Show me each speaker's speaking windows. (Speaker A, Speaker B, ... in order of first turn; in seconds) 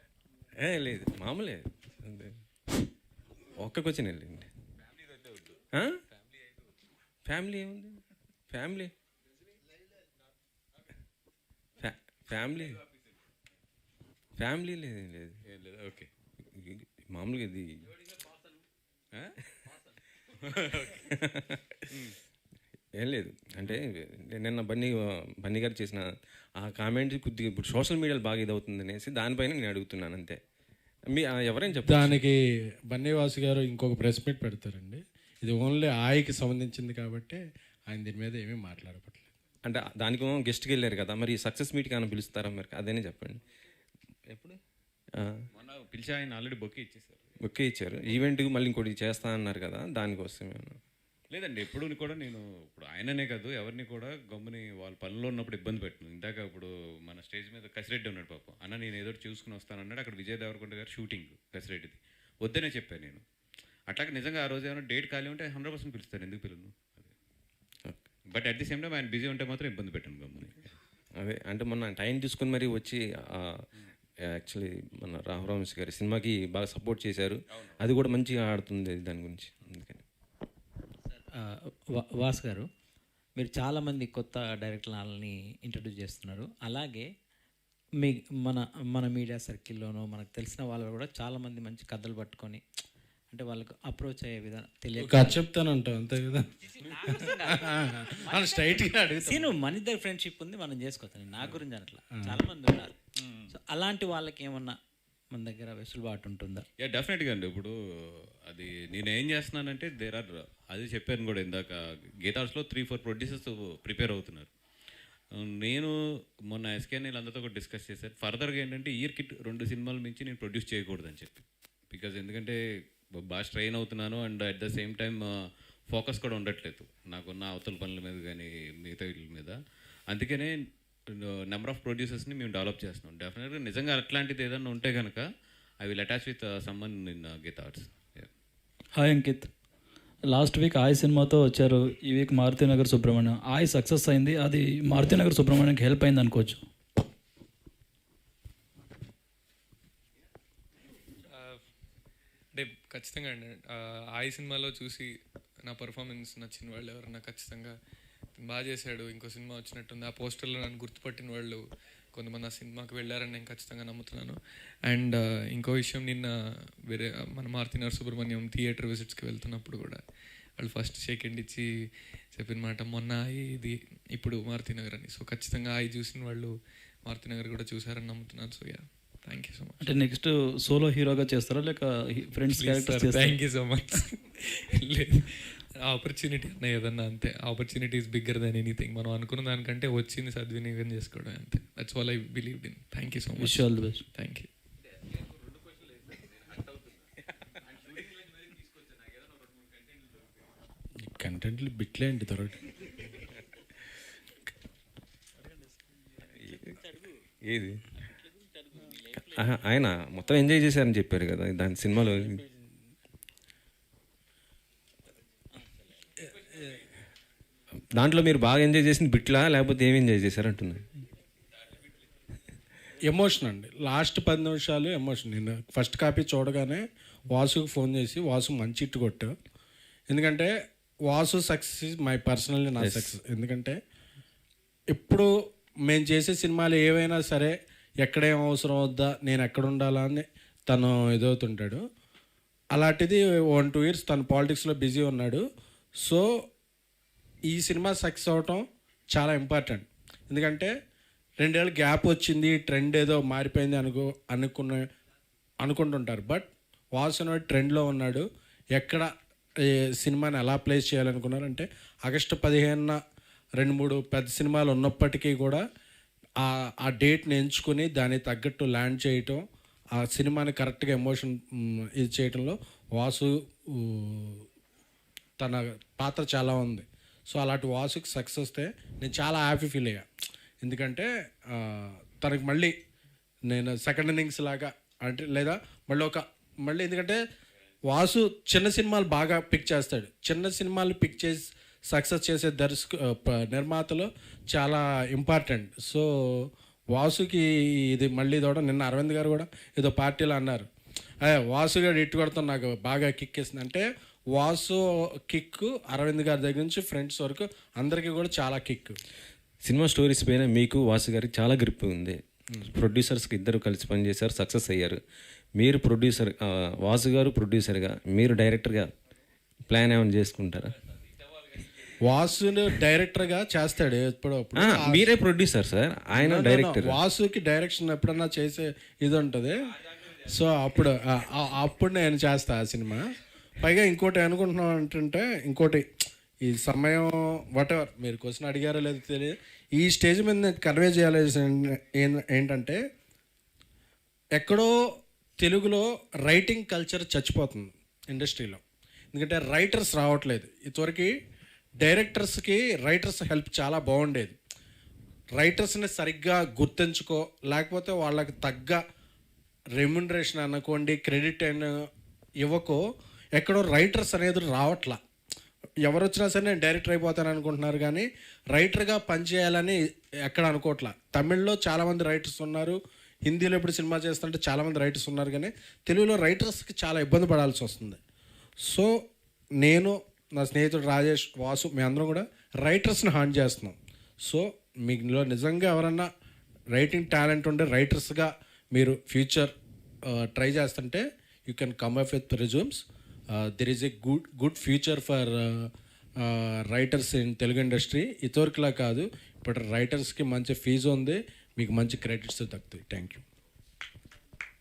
Speaker A: 0.6-2.3, 3.6-4.5, 7.2-8.9, 11.8-12.8, 14.4-15.4, 16.5-17.9, 21.0-21.8, 23.0-26.0, 26.6-30.4, 31.1-32.2, 39.6-43.4, 44.3-44.6, 47.4-50.8, 71.2-73.6, 74.3-80.0, 206.4-206.8, 207.5-207.8, 209.3-212.4, 217.9-220.9, 232.8-233.1, 309.6-315.0, 315.6-318.9, 319.7-320.8, 324.5-327.0
Speaker B: 4.8-5.6, 15.5-16.1, 19.1-19.9, 20.4-21.1, 21.9-22.2, 45.5-47.2, 51.3-63.2, 63.9-67.1, 68.3-70.7, 103.2-103.5, 106.8-107.7, 108.5-114.5, 115.4-115.9, 116.5-122.6, 123.2-125.2, 125.9-129.6, 130.1-130.6, 131.1-135.2, 135.8-138.3, 195.1-196.9, 197.7-199.9
Speaker C: 31.9-39.3, 95.0-99.6, 102.1-102.4, 201.0-203.0, 223.0-229.3, 230.1-230.5, 231.1-233.8, 234.9-235.3, 235.9-241.8, 242.7-245.4, 246.0-246.3, 247.5-250.7, 251.4-254.9, 255.6-258.2, 258.8-259.1, 260.0-263.0, 263.6-265.6, 266.4-269.4, 269.9-274.4, 275.4-280.1, 280.6-282.7, 283.5-287.2, 287.9-300.7, 301.2-309.0, 322.0-325.1, 326.1-335.9, 336.4-342.8, 344.4-344.7, 345.4-348.6, 349.1-351.1, 351.8-354.3, 355.4-358.8, 359.8-361.8, 362.4-362.8, 363.4-365.0, 365.8-378.0, 379.6-386.1, 386.7-389.5, 390.1-392.8, 393.3-395.7, 396.2-403.2
Speaker D: 81.1-82.6, 83.4-87.0, 88.0-92.6, 93.3-95.4, 97.0-103.0, 103.5-104.8, 105.3-106.7
Speaker E: 138.9-139.5, 140.3-146.7, 179.8-183.4, 193.4-194.0
Speaker F: 151.2-151.6, 152.5-155.1, 155.6-157.7, 158.4-161.6, 162.1-164.3, 164.9-166.3, 166.9-170.0, 170.6-171.6, 172.3-176.5, 177.0-179.9, 182.5-194.5